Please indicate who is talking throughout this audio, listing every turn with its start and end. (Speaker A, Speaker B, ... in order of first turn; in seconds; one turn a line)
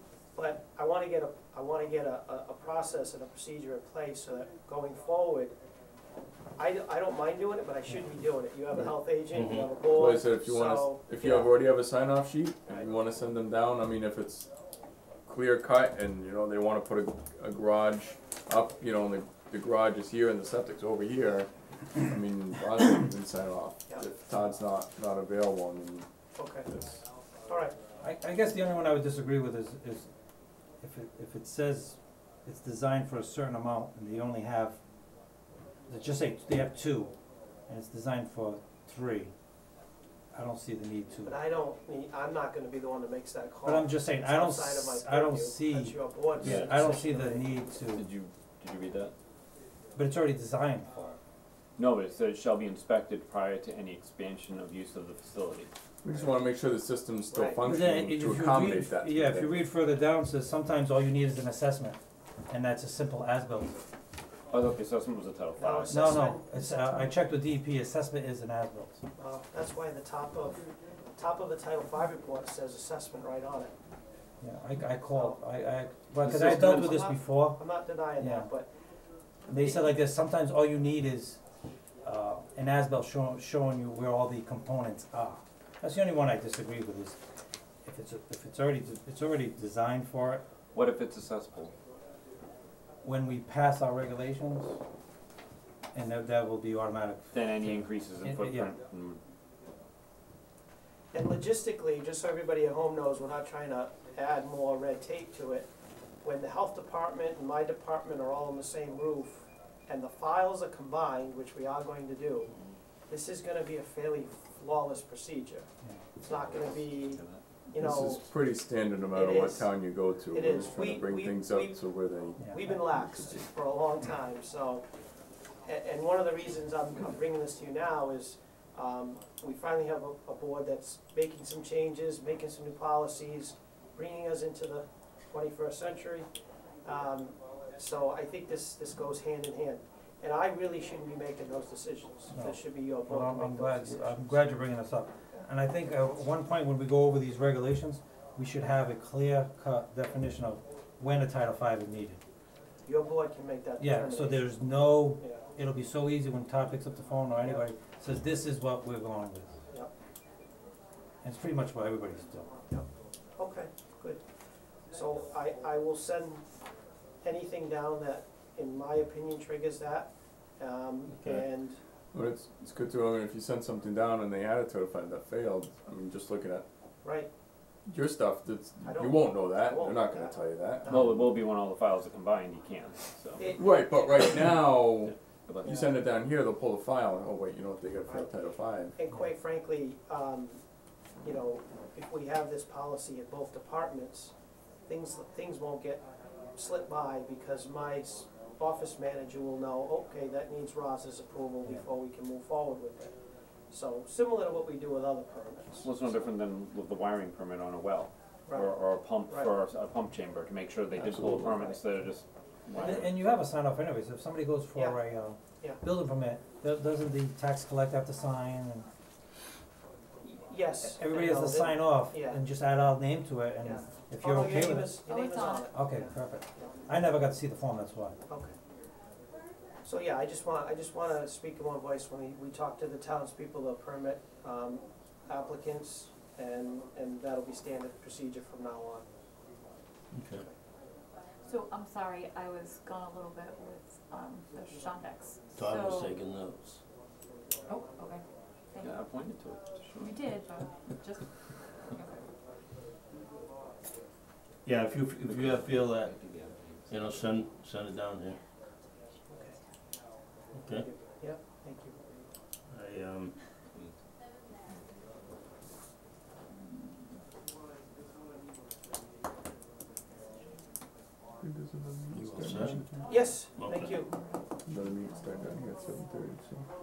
Speaker A: 0.3-5.5
Speaker A: 6.6-11.5
Speaker B: 8.8-9.7
Speaker C: 9.9-14.5
Speaker C: 15.2-26.1
Speaker A: 26.4-26.7
Speaker C: 26.6-27.0
Speaker A: 27.5-27.7
Speaker D: 28.0-30.1
Speaker D: 30.8-34.8
Speaker D: 35.9-37.1
Speaker D: 37.7-39.3
Speaker D: 40.3-41.4
Speaker A: 41.2-47.5
Speaker D: 43.6-48.0
Speaker E: 46.4-46.7
Speaker E: 47.9-49.1
Speaker D: 50.0-51.1
Speaker E: 51.8-55.7
Speaker C: 56.0-59.6
Speaker A: 57.3-57.6
Speaker D: 57.6-62.0
Speaker D: 62.5-63.8
Speaker E: 64.5-65.9
Speaker A: 65.6-67.0
Speaker D: 65.9-69.0
Speaker A: 69.2-70.6
Speaker A: 71.2-73.7
Speaker D: 74.4-78.5
Speaker A: 75.1-75.4
Speaker E: 76.2-76.9
Speaker A: 76.6-78.7
Speaker D: 79.5-81.4
Speaker A: 79.6-79.8
Speaker D: 82.0-87.2
Speaker D: 87.8-90.4
Speaker E: 90.7-91.7
Speaker D: 93.0-94.8
Speaker D: 95.9-98.7
Speaker E: 97.3-99.2
Speaker A: 101.1-105.7
Speaker A: 106.2-112.5
Speaker E: 112.5-112.8
Speaker A: 113.1-118.3
Speaker E: 116.3-117.4
Speaker C: 117.7-123.4
Speaker A: 119.1-119.7
Speaker A: 120.3-121.8
Speaker D: 122.4-122.8
Speaker A: 122.5-124.8
Speaker A: 125.6-136.3
Speaker A: 136.8-144.3
Speaker D: 142.3-152.2
Speaker A: 152.8-154.5
Speaker D: 153.8-159.5
Speaker D: 161.2-162.5
Speaker A: 163.4-164.2
Speaker A: 164.9-166.4
Speaker A: 167.2-171.8
Speaker B: 171.2-171.4
Speaker C: 172.1-176.7
Speaker A: 177.0-177.3
Speaker C: 177.9-181.0
Speaker A: 178.8-181.1
Speaker E: 180.9-183.5
Speaker A: 183.4-184.0
Speaker C: 183.5-189.0
Speaker E: 185.5-185.8
Speaker A: 185.6-185.9
Speaker A: 188.1-188.3
Speaker A: 188.9-190.6
Speaker A: 191.2-194.3
Speaker A: 194.9-196.0
Speaker A: 196.5-203.1
Speaker A: 203.7-205.9
Speaker E: 205.8-213.4
Speaker A: 208.5-208.7
Speaker A: 209.3-209.5
Speaker A: 211.3-211.8
Speaker D: 212.7-218.9
Speaker A: 214.7-215.8
Speaker A: 220.2-222.4
Speaker D: 220.8-225.0
Speaker A: 223.6-226.7
Speaker F: 225.0-225.7
Speaker D: 225.7-228.2
Speaker A: 228.3-228.5
Speaker A: 229.8-239.0
Speaker B: 240.1-240.4
Speaker F: 241.4-246.2
Speaker B: 245.5-246.8
Speaker F: 247.7-249.0
Speaker E: 248.8-250.1
Speaker F: 250.0-251.3
Speaker B: 254.6-256.1
Speaker E: 255.2-256.9
Speaker B: 256.9-258.4
Speaker B: 260.5-260.9
Speaker A: 260.8-261.9
Speaker B: 262.7-263.4
Speaker C: 271.4-273.1
Speaker B: 272.1-272.8
Speaker A: 273.1-274.1
Speaker B: 273.6-274.0
Speaker F: 273.6-275.8
Speaker C: 274.6-276.7